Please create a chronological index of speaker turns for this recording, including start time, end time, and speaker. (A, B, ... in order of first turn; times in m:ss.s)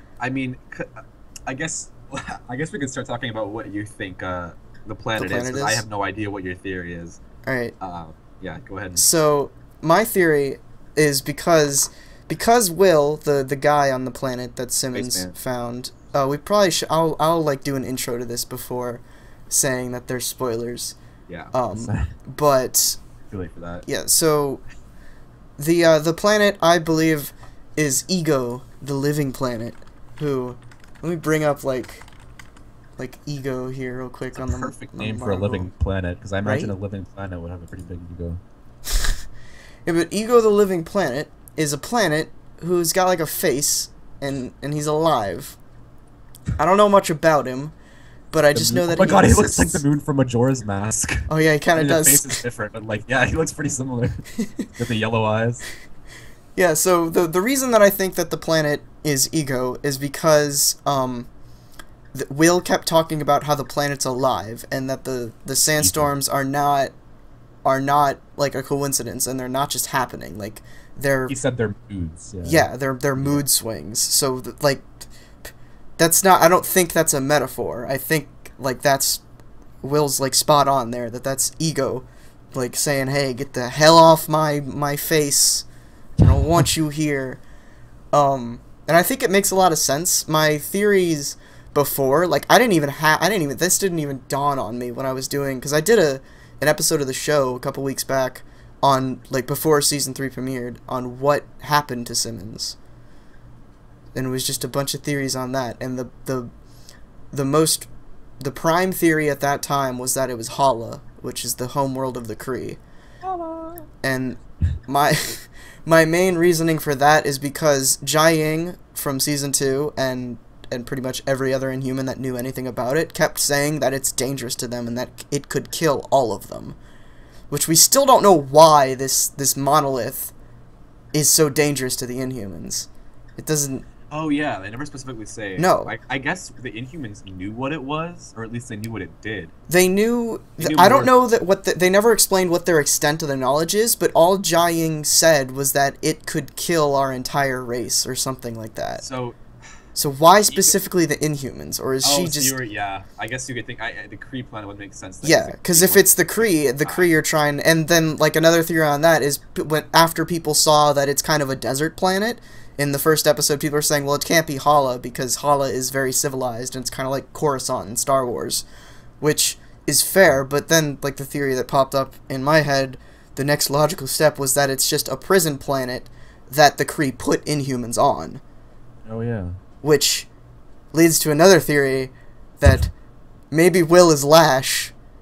0:00.2-0:07.2 A
0:05.2-0:05.8 B
0:07.4-0:07.7 B
0:07.8-0:09.0 A
0:09.0-0:21.0 B
0:14.9-0:15.3 A
0:21.3-0:22.1 A
0:21.5-0:23.0 B
0:23.3-0:23.8 A
0:23.8-0:24.6 B
0:25.6-0:32.0 B
0:33.0-0:35.7 B
0:34.3-0:38.4 A
0:36.4-0:36.7 B
0:39.8-0:45.6 B
0:46.6-0:47.7 B
0:48.3-0:49.8 B
0:48.5-0:55.6 A
0:51.3-0:52.4 B
0:54.4-0:54.7 B
0:56.6-1:01.3 B
1:02.1-1:06.9 B
1:05.8-1:06.1 A
1:07.6-1:11.3 B
1:11.3-1:13.4 A
1:12.4-1:15.1 B
1:16.0-1:19.2 B
1:19.8-1:25.6 B
1:26.2-1:27.4 B
1:28.1-1:42.8 B
1:44.1-1:46.5 B
1:47.3-1:47.9 B
1:48.4-1:52.8 B
1:53.2-1:53.9 A
1:54.0-2:06.8 B
2:07.5-2:10.3 B
2:11.1-2:13.8 B
2:14.1-2:19.5 A
2:15.6-2:15.9 B
2:19.7-2:29.0 B
2:20.6-2:21.1 A
2:29.0-2:29.4 A
2:29.9-2:32.5 B
2:30.5-2:30.8 A
2:32.0-2:37.1 A
2:35.2-2:48.6 B
2:49.2-2:58.4 B
2:59.0-2:59.6 A
2:59.8-3:00.3 B
3:00.9-3:02.9 B
3:03.5-3:04.9 B